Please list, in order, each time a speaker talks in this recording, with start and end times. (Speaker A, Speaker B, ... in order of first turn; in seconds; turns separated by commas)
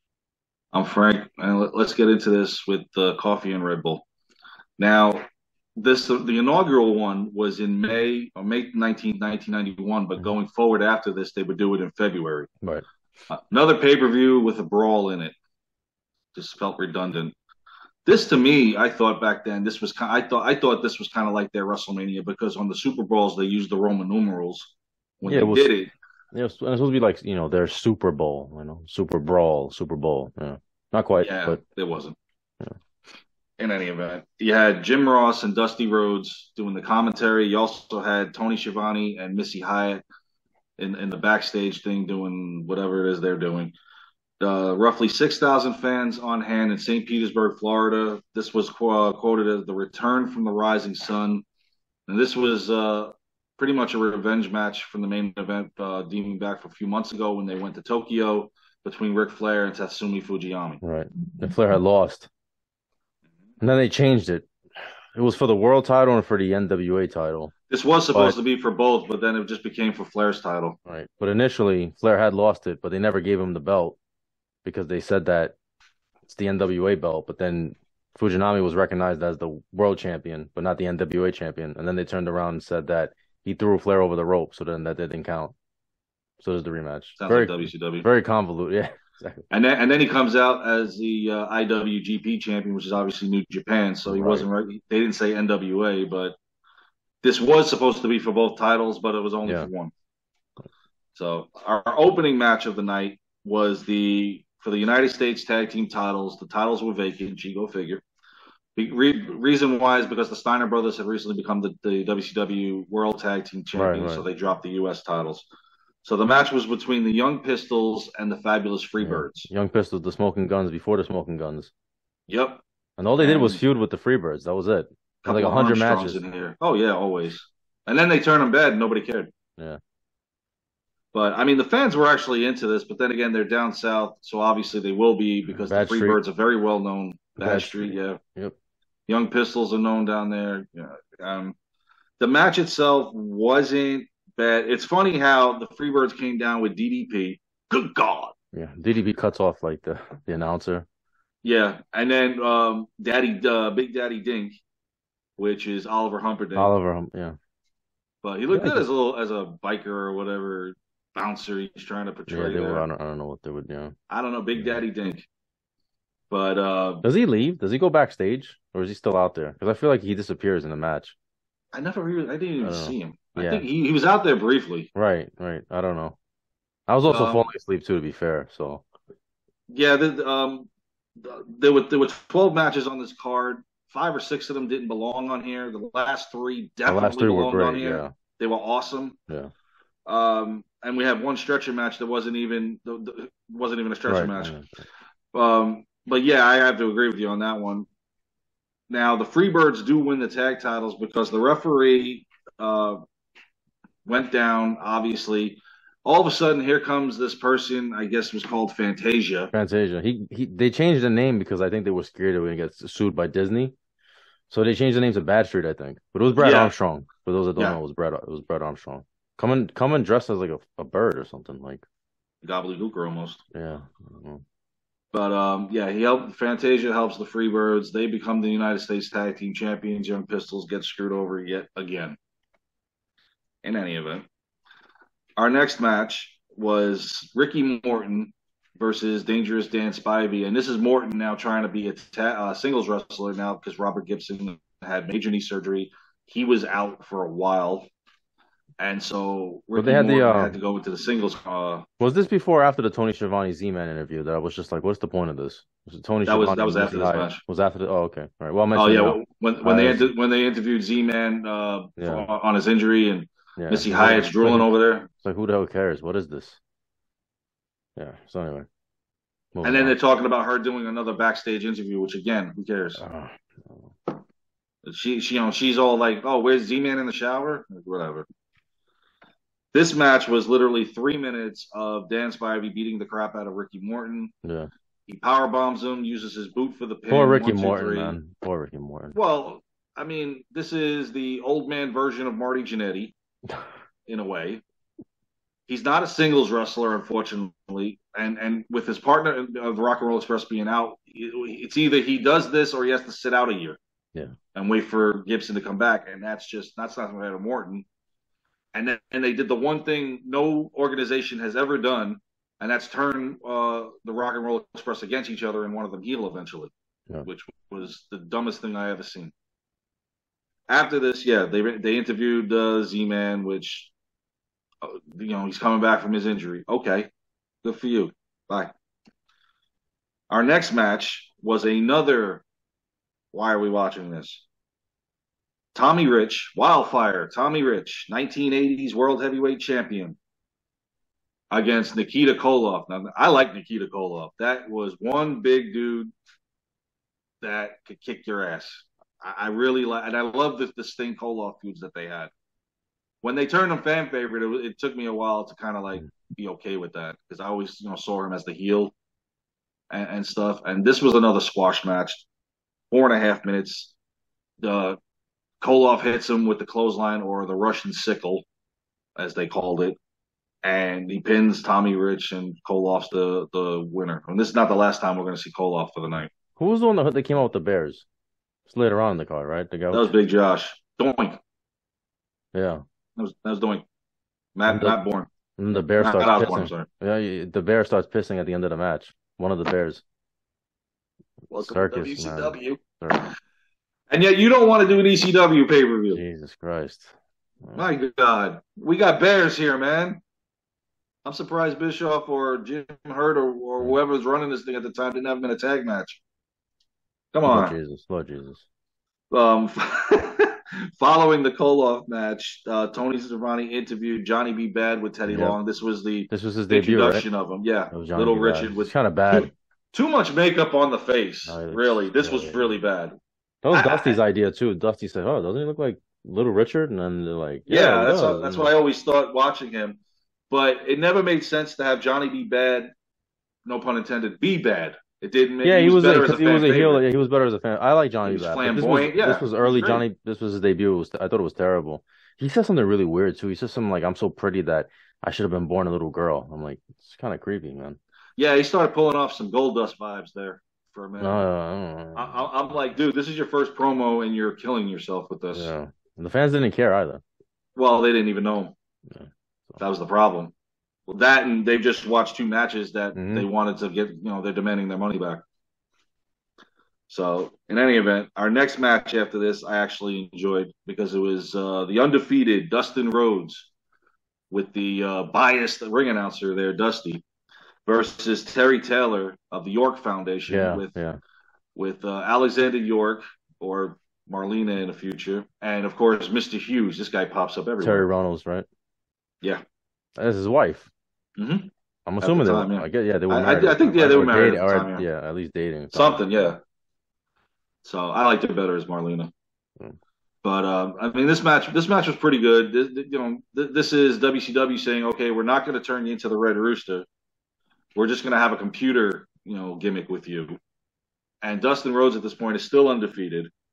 Speaker A: 0.7-4.0, Speaker A: 4.8-5.2, Speaker A: 5.8-12.5, Speaker A: 13.3-15.3, Speaker A: 16.3-17.3, Speaker A: 18.1-25.9, Speaker B: 25.3-25.7, Speaker B: 26.3-31.6, Speaker A: 31.2-32.1, Speaker A: 33.6-40.0, Speaker A: 40.8-43.7, Speaker A: 44.4-51.4, Speaker A: 52.1-60.8, Speaker B: 60.8-62.3, Speaker B: 63.6-64.5, Speaker B: 65.1-67.5, Speaker A: 67.7-70.8, Speaker B: 70.8-74.0, Speaker B: 74.6-75.5, Speaker B: 76.3-85.5, Speaker B: 86.4-89.4, Speaker A: 87.2-88.1, Speaker A: 89.5-96.3, Speaker B: 94.1-94.5, Speaker A: 97.2-99.9, Speaker A: 101.1-108.0, Speaker A: 108.8-115.5, Speaker B: 113.7-114.2, Speaker A: 116.0-119.5, Speaker B: 119.0-121.7, Speaker A: 122.3-122.6, Speaker B: 123.0-126.2, Speaker A: 123.2-123.6, Speaker A: 125.2-129.3, Speaker A: 131.1-138.2, Speaker B: 135.5-136.2, Speaker B: 137.4-138.6, Speaker A: 139.1-141.6, Speaker A: 142.2-148.3, Speaker B: 148.5-150.8, Speaker A: 151.4-154.6, Speaker A: 155.4-156.7, Speaker B: 156.6-157.4, Speaker A: 158.2-162.8, Speaker B: 158.5-158.8, Speaker B: 162.3-163.9, Speaker A: 164.1-165.3, Speaker A: 166.3-167.0, Speaker B: 167.0-171.1, Speaker A: 171.7-174.9, Speaker B: 172.6-173.7, Speaker B: 174.9-176.2, Speaker B: 176.9-178.8, Speaker A: 177.1-177.4, Speaker A: 179.7-189.2, Speaker B: 186.9-188.1, Speaker A: 190.1-194.5, Speaker B: 194.1-194.7, Speaker A: 195.3-197.9, Speaker A: 198.9-203.0, Speaker A: 204.0-209.5, Speaker B: 209.5-213.7, Speaker B: 214.5-221.8, Speaker A: 216.4-216.7, Speaker A: 222.4-223.4, Speaker B: 223.5-224.4, Speaker A: 225.1-232.2, Speaker A: 233.6-234.2, Speaker A: 235.4-247.9, Speaker A: 248.8-251.8, Speaker B: 249.8-250.6, Speaker B: 252.0-260.1, Speaker A: 256.2-257.4, Speaker A: 258.7-265.1, Speaker B: 262.0-262.2, Speaker B: 263.6-266.6, Speaker B: 268.0-268.7, Speaker B: 269.5-269.9, Speaker A: 269.6-273.0, Speaker B: 273.0-273.9, Speaker A: 274.8-278.2, Speaker A: 279.7-284.3, Speaker B: 284.4-284.7, Speaker A: 285.1-288.1, Speaker B: 287.1-289.1, Speaker A: 289.1-293.1, Speaker A: 294.1-294.6, Speaker A: 295.7-303.8, Speaker A: 304.5-307.9, Speaker A: 308.7-316.7, Speaker A: 317.2-319.3, Speaker A: 320.7-323.9, Speaker A: 324.8-327.1, Speaker A: 327.6-328.7, Speaker A: 330.3-332.4, Speaker A: 333.3-334.4, Speaker A: 335.7-340.2, Speaker A: 341.5-346.1, Speaker A: 347.4-352.3, Speaker A: 353.2-358.9, Speaker A: 359.9-362.2, Speaker A: 362.9-363.9, Speaker A: 364.6-365.0, Speaker A: 365.6-368.4, Speaker A: 369.1-370.0, Speaker A: 370.6-376.3, Speaker B: 376.6-378.0, Speaker B: 378.7-380.1, Speaker A: 379.9-381.4, Speaker B: 382.5-382.8, Speaker A: 383.2-383.8, Speaker A: 384.5-385.3, Speaker B: 384.7-385.0, Speaker B: 385.6-390.0, Speaker A: 386.0-386.9, Speaker A: 391.5-393.2, Speaker B: 391.6-393.3, Speaker A: 394.1-396.2, Speaker B: 396.1-397.9, Speaker A: 397.8-400.2, Speaker A: 401.2-406.2, Speaker A: 407.3-407.7, Speaker B: 407.4-408.6, Speaker A: 409.3-423.1, Speaker B: 415.3-415.6, Speaker B: 416.3-417.3, Speaker B: 417.9-419.5, Speaker B: 421.5-422.6, Speaker B: 423.6-428.7, Speaker A: 423.7-424.2, Speaker A: 427.7-430.0, Speaker A: 430.5-432.9, Speaker A: 433.6-437.0, Speaker B: 435.6-448.0, Speaker A: 438.2-440.0, Speaker A: 448.4-451.4, Speaker B: 451.2-452.4, Speaker A: 452.1-455.7, Speaker B: 455.5-457.2, Speaker A: 457.8-458.7, Speaker B: 459.1-459.8, Speaker A: 459.8-460.5, Speaker A: 461.1-465.4, Speaker B: 463.1-463.5, Speaker A: 467.1-473.7, Speaker A: 474.5-477.2, Speaker A: 477.9-480.9, Speaker B: 480.5-481.2, Speaker A: 481.8-488.1, Speaker B: 487.8-488.6, Speaker B: 490.2-490.9, Speaker A: 491.4-491.7, Speaker B: 492.1-496.5, Speaker A: 492.2-495.0, Speaker A: 495.9-496.6, Speaker A: 497.8-499.3, Speaker A: 500.4-507.1, Speaker A: 507.9-510.6, Speaker A: 511.4-513.5